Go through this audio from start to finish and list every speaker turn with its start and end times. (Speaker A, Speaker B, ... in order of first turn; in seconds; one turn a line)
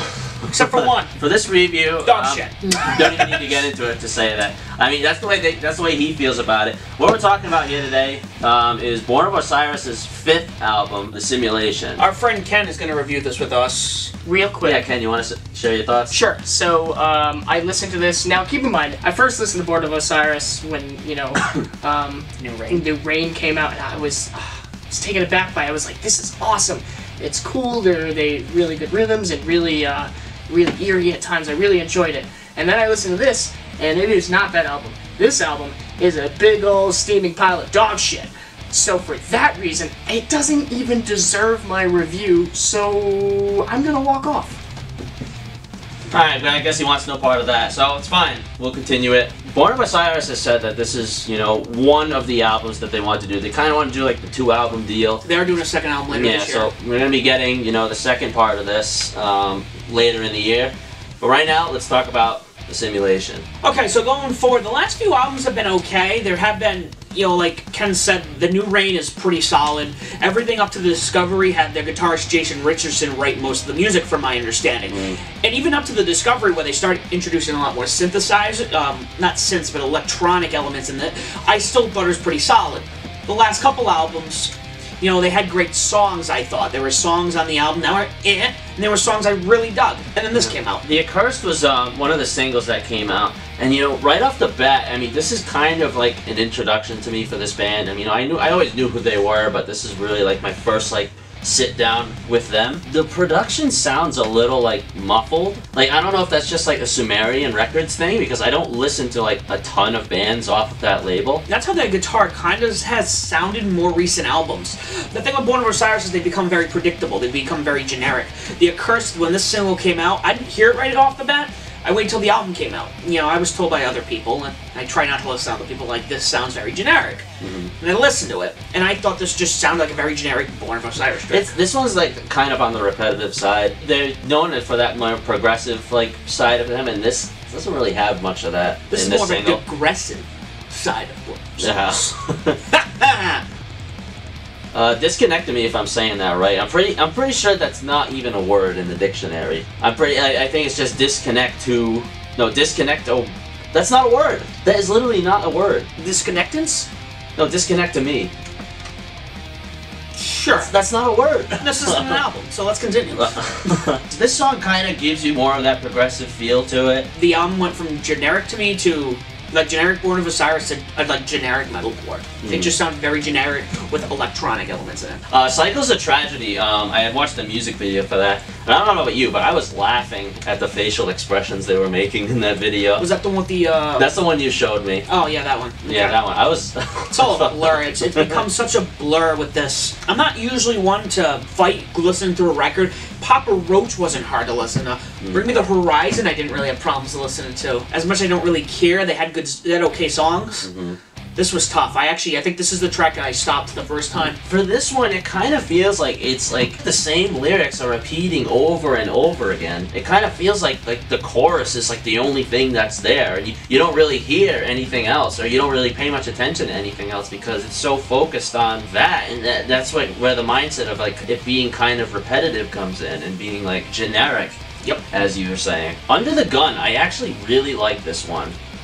Speaker A: 0.4-12.0
Speaker B: 0.5-1.1
Speaker B: 2.0-3.5
Speaker B: 12.0-14.1
Speaker C: 14.2-14.8
Speaker A: 14.6-16.1
Speaker C: 16.1-44.6
Speaker B: 22.4-22.8
Speaker A: 46.1-55.2
Speaker B: 55.2-56.7
Speaker A: 56.1-63.4
Speaker B: 63.6-90.8
Speaker A: 74.9-75.2
Speaker A: 90.3-111.4
Speaker B: 111.5-127.3
Speaker A: 127.4-127.7
Speaker B: 127.8-131.5
Speaker A: 131.3-139.6
Speaker B: 138.9-142.1
Speaker A: 141.6-142.6
Speaker B: 142.7-143.4
Speaker A: 144.7-155.9
Speaker B: 156.0-156.9
Speaker A: 157.3-158.3
Speaker B: 160.1-160.7
Speaker A: 160.6-162.2
Speaker B: 161.6-163.8
Speaker A: 163.1-167.1
Speaker B: 167.1-175.2
Speaker A: 172.4-172.7
Speaker A: 175.3-183.1
Speaker B: 183.0-184.1
Speaker A: 184.0-185.1
Speaker B: 185.1-186.2
Speaker A: 185.8-188.4
Speaker B: 187.1-200.7
Speaker A: 195.2-195.5
Speaker A: 200.6-201.0
Speaker B: 201.3-204.4
Speaker A: 204.4-224.6
Speaker A: 225.1-228.5